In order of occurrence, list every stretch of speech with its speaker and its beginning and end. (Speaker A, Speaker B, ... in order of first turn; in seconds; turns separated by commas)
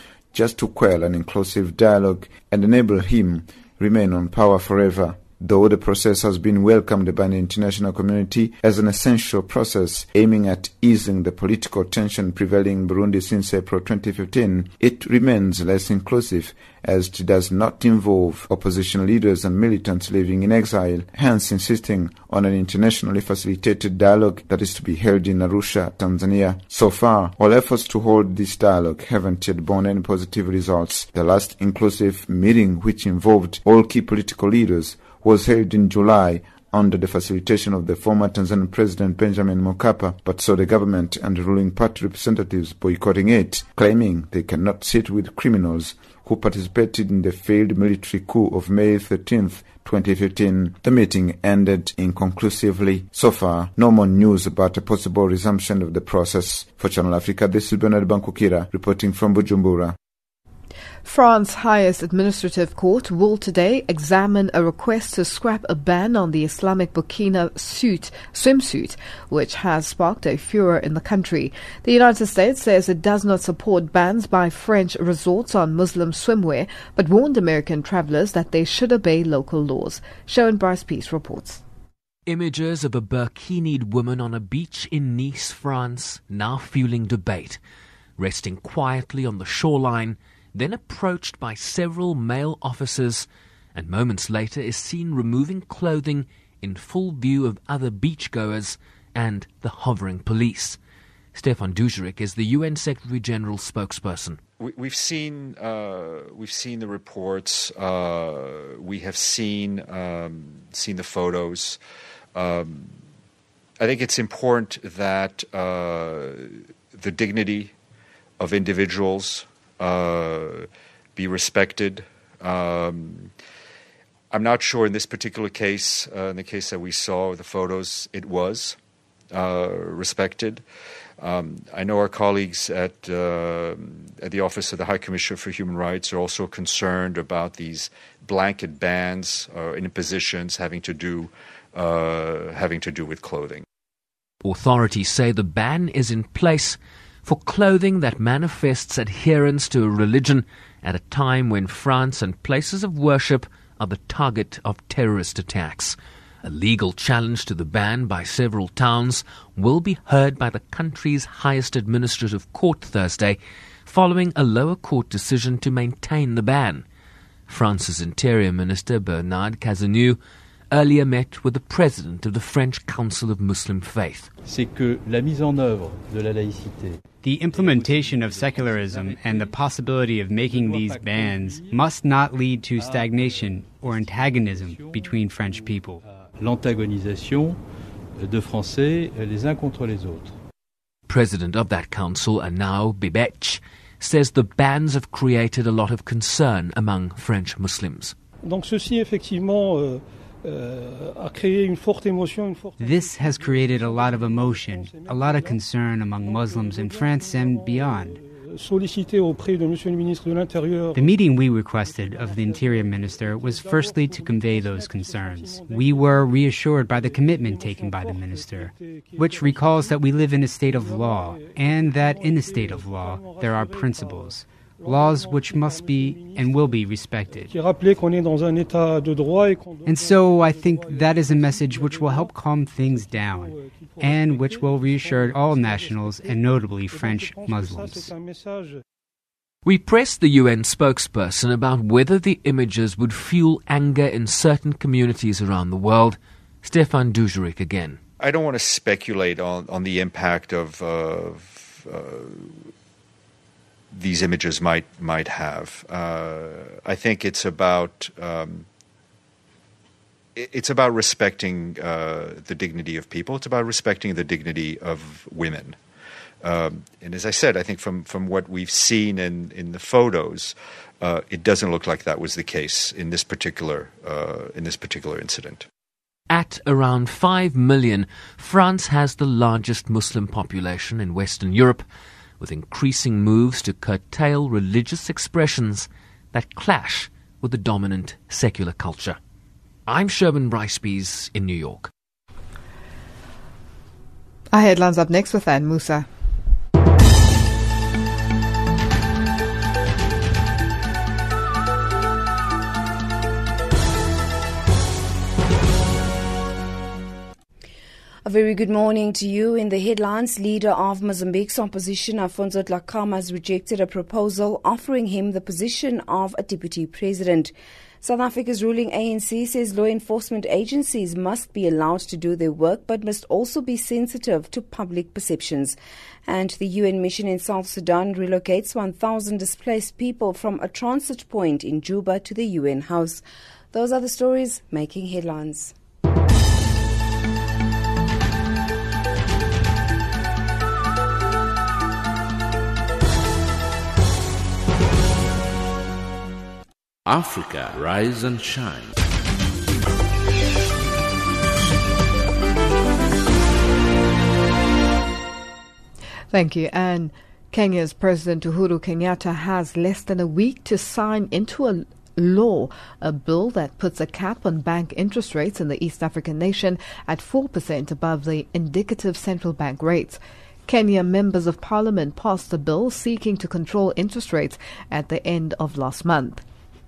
Speaker A: 0.3-60.0, Speaker B: 61.0-81.6, Speaker C: 82.3-87.6, Speaker C: 88.2-100.8, Speaker C: 101.3-104.4, Speaker D: 104.6-111.8, Speaker D: 112.3-113.0, Speaker D: 113.8-117.7, Speaker D: 118.4-123.3, Speaker D: 124.3-128.8, Speaker D: 129.3-130.6, Speaker D: 131.2-143.7, Speaker C: 144.4-166.9, Speaker C: 167.5-170.2, Speaker C: 170.7-174.3, Speaker E: 174.4-177.0, Speaker F: 177.2-186.0, Speaker E: 177.6-179.2, Speaker E: 180.6-181.4, Speaker E: 182.8-185.1, Speaker E: 186.2-187.6, Speaker E: 188.2-190.3, Speaker C: 191.1-198.2, Speaker F: 202.8-208.2, Speaker F: 210.9-227.5, Speaker F: 229.8-238.1, Speaker C: 239.7-248.0, Speaker D: 248.2-252.7, Speaker D: 253.9-258.7, Speaker D: 260.4-265.8, Speaker D: 266.4-275.7, Speaker C: 276.3-281.9, Speaker C: 282.4-289.2, Speaker C: 289.9-291.9, Speaker B: 294.5-296.1, Speaker G: 308.2-335.7, Speaker H: 347.1-349.0, Speaker B: 356.3-376.4